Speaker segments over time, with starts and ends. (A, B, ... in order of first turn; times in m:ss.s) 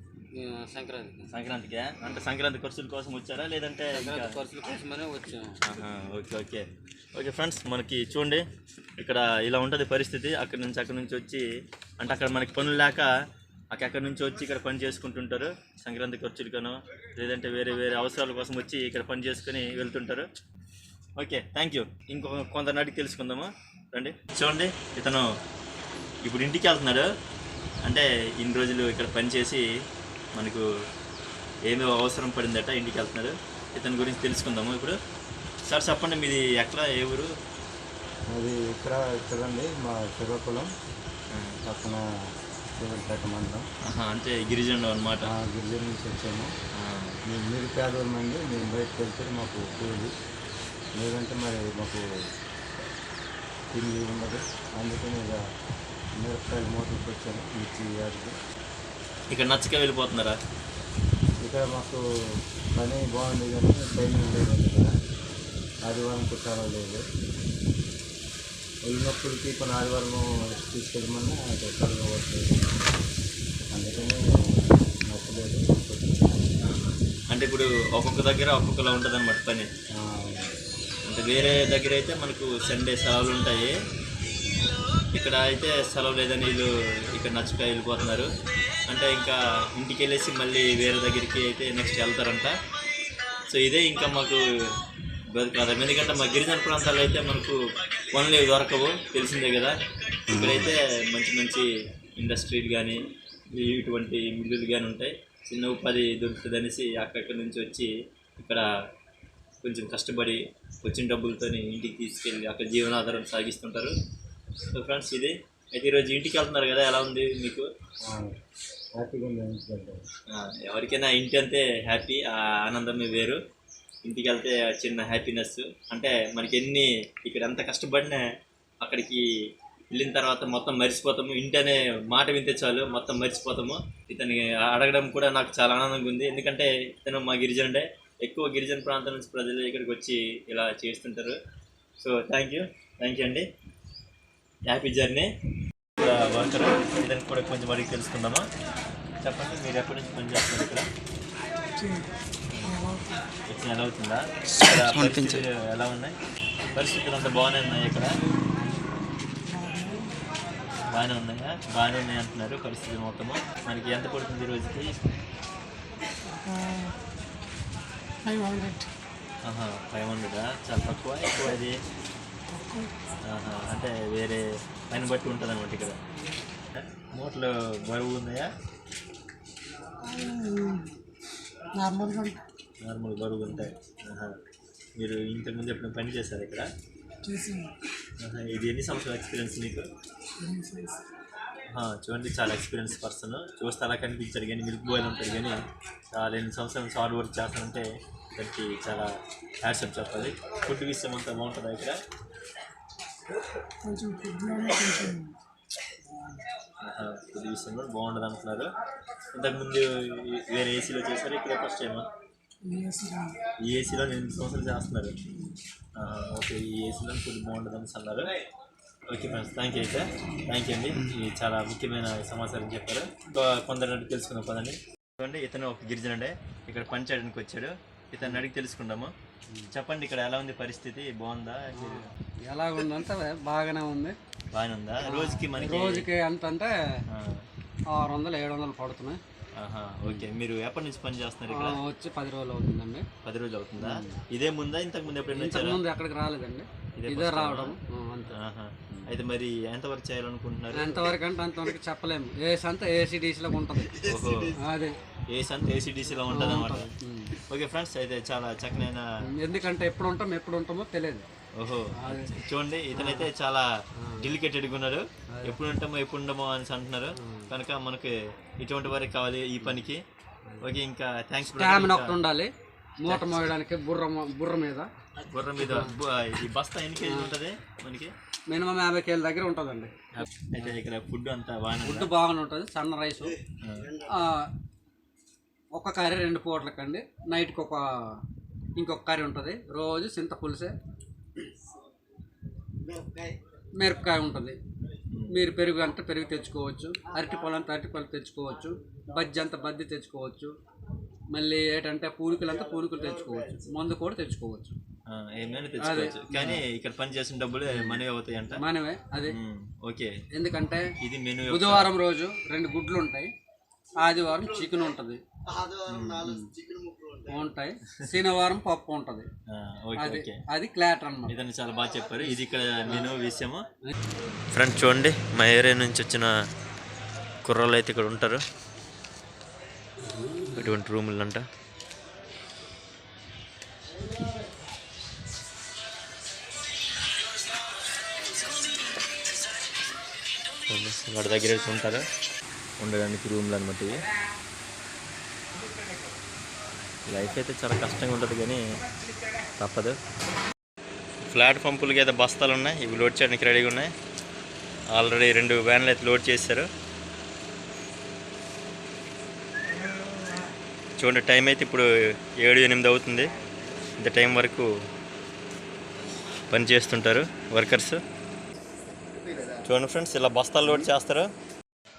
0:00.4-0:01.3 A
0:01.3-0:04.3 B
0:03.9-0:05.6 A
0:05.7-0:08.4 B
0:09.0-0:11.4 B
0:12.0-0:13.1 B
0:13.7-0:20.3 B
0:21.2-0:25.2 B
0:26.2-0:27.1 B
0:27.8-0:29.6 B
0:30.4-0:30.7 B
0:31.7-0:35.0 B
0:35.7-0:37.3 B
0:38.3-0:40.7 C
0:41.3-0:41.6 B
0:41.7-0:42.0 C
0:42.8-0:43.7 C
0:43.8-0:45.3 B
0:45.3-0:46.5 C
0:46.7-0:47.2 B
0:47.3-0:50.1 C
0:51.0-0:52.0 C
0:53.7-0:55.4 C
0:56.2-0:58.4 C
0:59.3-1:00.4 B
1:01.4-1:02.0 C
1:02.8-1:04.9 C
1:05.9-1:07.0 C
1:08.9-1:12.6 C
1:13.7-1:16.4 C
1:16.6-1:19.7 B
1:20.0-1:20.6 C
1:21.1-1:23.7 B
1:25.1-1:28.3 B
1:28.9-1:32.5 B
1:33.5-1:34.4 B
1:35.4-1:37.6 B
1:38.1-1:39.8 B
1:40.3-1:43.0 B
1:43.5-1:48.7 B
1:49.6-1:53.9 B
1:54.7-1:57.7 B
1:58.1-1:58.4 C
1:59.0-2:00.0 C
2:00.3-2:03.4 B
2:04.0-2:08.2 B
2:08.8-2:09.2 B
2:09.9-2:21.4 B
2:22.0-2:23.5 B
2:24.7-2:25.3 B
2:26.0-2:28.5 B
2:29.2-2:30.9 B
2:32.5-2:32.9 B
2:33.5-2:36.2 B
2:36.7-2:38.1 B
2:40.9-2:44.9 B
2:48.3-2:48.8 D
2:49.4-2:51.8 B
2:53.3-2:56.0 B
2:56.7-2:58.5 B
3:00.4-3:00.7 D
3:01.8-3:02.4 D
3:02.8-3:04.3 B
3:05.0-3:06.7 B
3:08.2-3:09.9 B
3:11.7-3:15.6 B
3:16.1-3:19.1 B
3:19.6-3:22.0 B
3:23.9-3:25.3 D
3:26.8-3:28.7 B
3:29.3-3:32.1 B
3:33.0-3:33.3 D
3:33.6-3:35.2 B
3:36.0-3:38.3 B
3:39.1-3:49.1 B
3:49.7-3:52.1 B
3:51.7-3:54.2 E
3:54.5-3:56.1 B
3:55.0-3:56.7 E
3:57.1-3:57.4 B
3:57.9-3:59.2 E
3:59.6-4:01.8 B
4:01.5-4:03.1 E
4:03.2-4:05.8 B
4:03.8-4:04.2 E
4:05.3-4:08.3 E
4:07.0-4:07.8 B
4:08.3-4:11.1 B
4:10.7-4:14.0 E
4:14.0-4:14.6 B
4:14.5-4:15.0 E
4:15.3-4:16.9 B
4:16.3-4:17.4 E
4:17.5-4:19.0 B
4:19.4-4:21.2 E
4:21.6-4:23.7 B
4:22.0-4:22.3 E
4:22.9-4:23.3 E
4:24.0-4:24.3 E
4:24.2-4:30.0 B
4:25.4-4:25.6 E
4:27.2-4:27.5 E
4:30.6-4:32.2 B
4:31.6-4:32.5 E
4:33.0-4:34.9 E
4:33.1-4:33.5 B
4:35.2-4:38.1 B
4:35.6-4:35.9 E
4:37.0-4:37.3 E
4:38.5-4:40.7 E
4:40.2-4:42.1 B
4:41.8-4:43.4 E
4:43.6-4:43.9 B
4:44.0-4:44.5 E
4:45.8-4:47.8 E
4:48.8-4:50.7 E
4:53.8-4:54.6 E
4:55.3-5:00.5 E
5:01.4-5:04.8 E
5:05.1-5:08.6 B
5:05.8-5:06.6 E
5:07.7-5:08.0 E
5:08.6-5:09.4 E
5:09.3-5:10.1 B
5:10.3-5:10.9 E
5:11.0-5:11.9 B
5:11.5-5:13.3 E
5:14.0-5:15.2 E
5:15.9-5:16.3 B
5:16.2-5:16.5 E
5:17.3-5:19.3 E
5:19.5-5:20.4 B
5:20.0-5:21.4 E
5:21.3-5:23.6 B
5:24.5-5:26.3 B
5:27.4-5:28.4 B
5:30.1-5:30.7 E
5:30.6-5:31.4 B
5:40.7-5:42.0 B
5:42.8-5:44.1 B
5:47.1-5:48.6 B
5:49.6-5:50.0 B
5:51.2-5:53.9 B
5:55.0-5:56.7 B
6:01.0-6:01.9 B
6:02.4-6:03.3 B
6:04.0-6:04.7 B
6:06.5-6:08.0 B
6:09.7-6:11.3 B